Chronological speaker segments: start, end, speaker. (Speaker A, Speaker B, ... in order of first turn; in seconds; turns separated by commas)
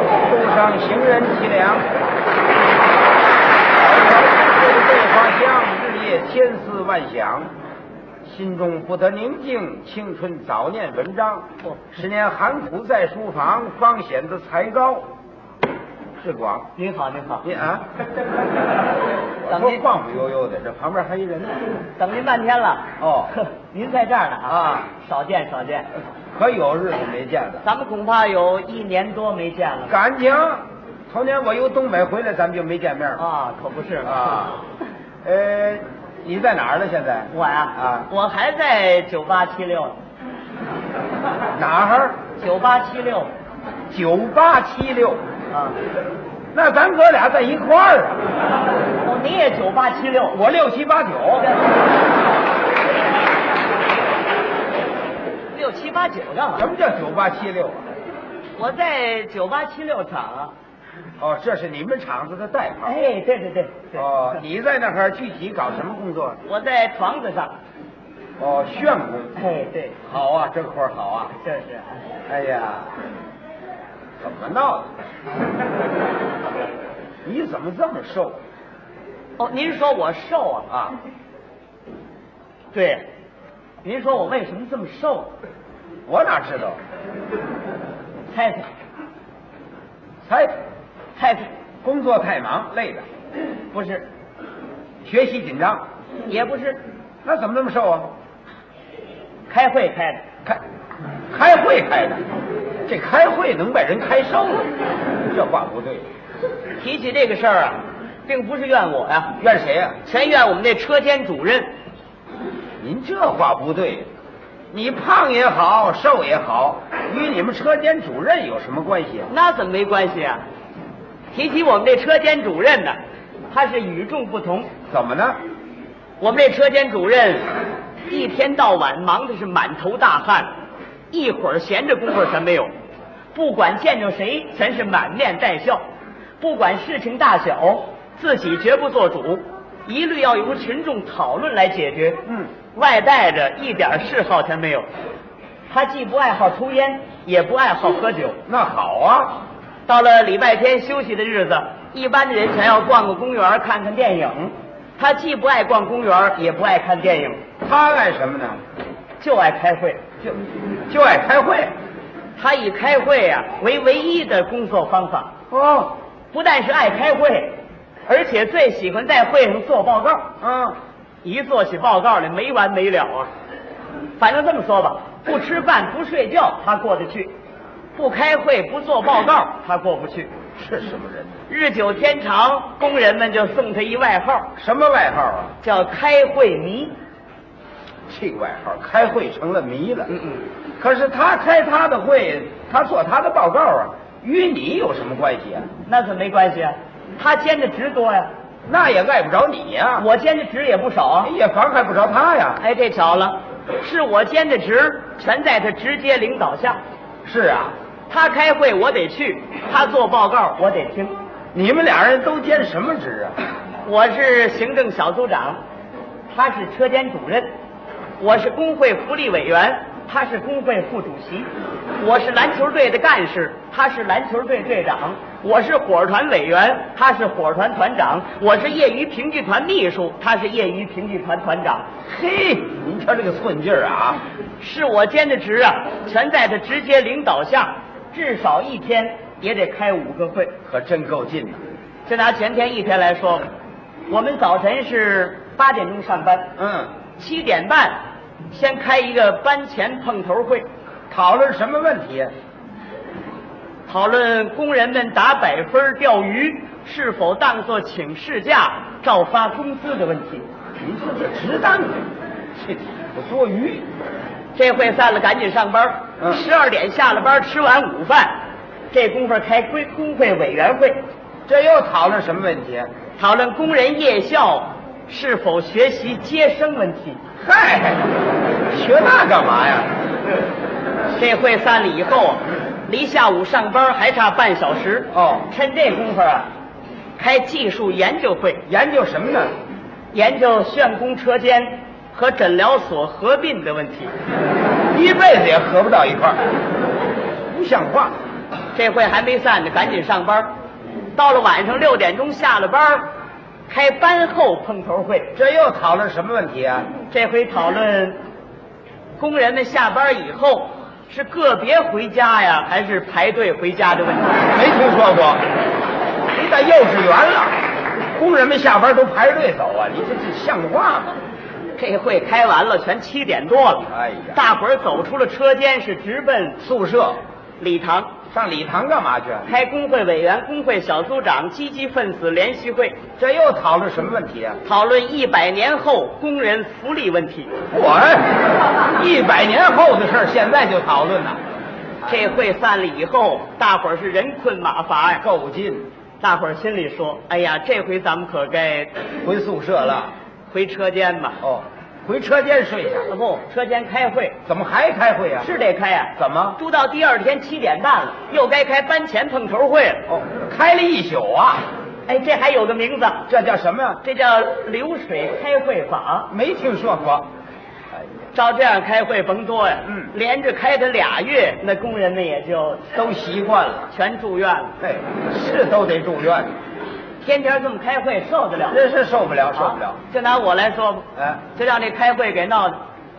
Speaker A: 0.2-1.9, Speaker A: 3.7-7.5, Speaker A: 8.2-15.1, Speaker A: 16.2-16.7, Speaker B: 16.8-17.5, Speaker A: 17.4-17.9, Speaker A: 19.4-21.6, Speaker B: 19.5-19.8, Speaker B: 22.0-25.9, Speaker A: 23.0-23.3, Speaker A: 24.5-24.9, Speaker A: 26.4-27.6, Speaker B: 27.6-29.9, Speaker A: 29.9-33.2, Speaker B: 33.2-34.6, Speaker A: 34.0-34.6, Speaker A: 35.2-38.1, Speaker B: 37.3-40.0, Speaker A: 41.5-42.2, Speaker B: 42.4-43.3, Speaker A: 43.9-45.2, Speaker B: 45.5-45.8, Speaker A: 46.5-48.3, Speaker B: 49.0-50.4, Speaker A: 50.3-51.5, Speaker B: 55.5-56.7, Speaker A: 56.6-57.8, Speaker B: 58.6-60.5, Speaker A: 61.2-63.0, Speaker B: 62.9-64.1, Speaker A: 64.0-66.4, Speaker B: 66.5-67.6, Speaker A: 68.4-69.4, Speaker B: 69.4-70.0, Speaker A: 70.0-71.4, Speaker B: 71.4-72.0, Speaker A: 72.3-72.9, Speaker A: 74.2-74.9, Speaker A: 77.2-78.4, Speaker B: 79.4-80.7, Speaker A: 80.7-81.0, Speaker B: 82.7-83.1, Speaker B: 83.8-85.3, Speaker A: 86.1-86.8, Speaker B: 88.3-88.7, Speaker A: 90.2-90.6, Speaker B: 91.2-91.5, Speaker A: 91.8-93.1, Speaker B: 93.7-94.0, Speaker A: 95.0-95.8, Speaker B: 96.3-96.8, Speaker A: 97.2-98.1, Speaker B: 99.5-100.2, Speaker A: 101.3-102.2, Speaker A: 102.9-104.7, Speaker A: 105.3-106.1, Speaker B: 106.8-109.4, Speaker A: 109.4-110.0, Speaker B: 110.0-111.7, Speaker A: 112.8-114.1, Speaker A: 114.7-119.3, Speaker B: 119.3-120.4, Speaker B: 121.3-123.0, Speaker B: 123.5-124.7, Speaker A: 124.9-125.4, Speaker B: 126.2-127.5, Speaker B: 128.1-130.5, Speaker B: 131.1-132.7, Speaker B: 133.3-135.8, Speaker B: 136.4-142.2, Speaker B: 142.8-144.9, Speaker B: 145.7-148.4, Speaker A: 148.5-149.4, Speaker B: 149.9-157.4, Speaker A: 157.6-158.6, Speaker B: 159.2-160.0, Speaker A: 160.9-161.7, Speaker B: 162.4-165.3, Speaker A: 165.5-165.9, Speaker B: 166.3-170.3, Speaker A: 170.4-170.8, Speaker B: 171.2-173.3, Speaker B: 174.2-177.3, Speaker B: 178.0-180.3, Speaker A: 180.6-181.4, Speaker B: 181.5-184.5, Speaker A: 184.6-185.6, Speaker B: 185.6-186.9, Speaker A: 188.1-190.1, Speaker B: 190.1-190.4, Speaker A: 190.8-195.7, Speaker B: 195.9-198.3, Speaker A: 198.7-200.1, Speaker B: 200.0-201.3, Speaker A: 201.2-202.6, Speaker B: 202.6-206.8, Speaker A: 207.3-207.7, Speaker B: 208.1-211.1, Speaker A: 211.5-213.3, Speaker B: 213.8-215.6, Speaker B: 216.3-217.5, Speaker B: 218.2-231.9, Speaker A: 232.1-234.2, Speaker B: 234.6-240.6, Speaker A: 240.7-241.6, Speaker B: 242.1-243.5, Speaker B: 244.1-246.5, Speaker A: 246.6-246.9, Speaker B: 247.2-248.0, Speaker B: 248.5-250.7, Speaker A: 251.1-252.3, Speaker B: 253.9-260.4, Speaker A: 260.8-263.9, Speaker B: 264.6-268.4, Speaker B: 268.9-271.0, Speaker A: 271.5-272.9, Speaker B: 273.2-277.2, Speaker A: 277.4-278.1, Speaker A: 278.7-279.9, Speaker B: 281.1-286.5, Speaker A: 285.1-285.5, Speaker B: 287.2-288.6, Speaker A: 288.7-289.5, Speaker B: 290.1-294.1, Speaker A: 294.9-296.4, Speaker A: 297.5-298.1, Speaker B: 298.8-300.5, Speaker B: 301.2-303.1, Speaker B: 303.7-305.3, Speaker A: 305.4-306.9, Speaker B: 307.1-308.2, Speaker B: 309.2-314.5, Speaker A: 314.5-315.4, Speaker A: 316.3-321.2, Speaker B: 321.8-326.6, Speaker A: 323.9-324.4, Speaker A: 326.6-327.2, Speaker B: 327.6-328.1, Speaker A: 328.3-329.5, Speaker B: 329.5-333.0, Speaker A: 333.2-334.6, Speaker B: 334.6-337.6, Speaker A: 337.7-341.4, Speaker B: 342.1-345.2, Speaker A: 345.2-345.9, Speaker B: 346.2-348.9, Speaker A: 349.2-350.1, Speaker B: 350.5-351.4, Speaker A: 351.4-353.1, Speaker B: 353.1-354.4, Speaker A: 354.5-355.5, Speaker B: 355.4-360.1, Speaker A: 356.2-356.6, Speaker A: 360.1-361.7, Speaker B: 362.1-363.3, Speaker A: 363.3-364.0, Speaker B: 364.0-366.3, Speaker A: 366.3-367.3, Speaker B: 368.3-372.9, Speaker A: 372.9-373.9, Speaker B: 373.9-374.7, Speaker A: 374.8-376.5, Speaker B: 377.2-378.8, Speaker A: 378.7-380.0, Speaker B: 379.6-382.8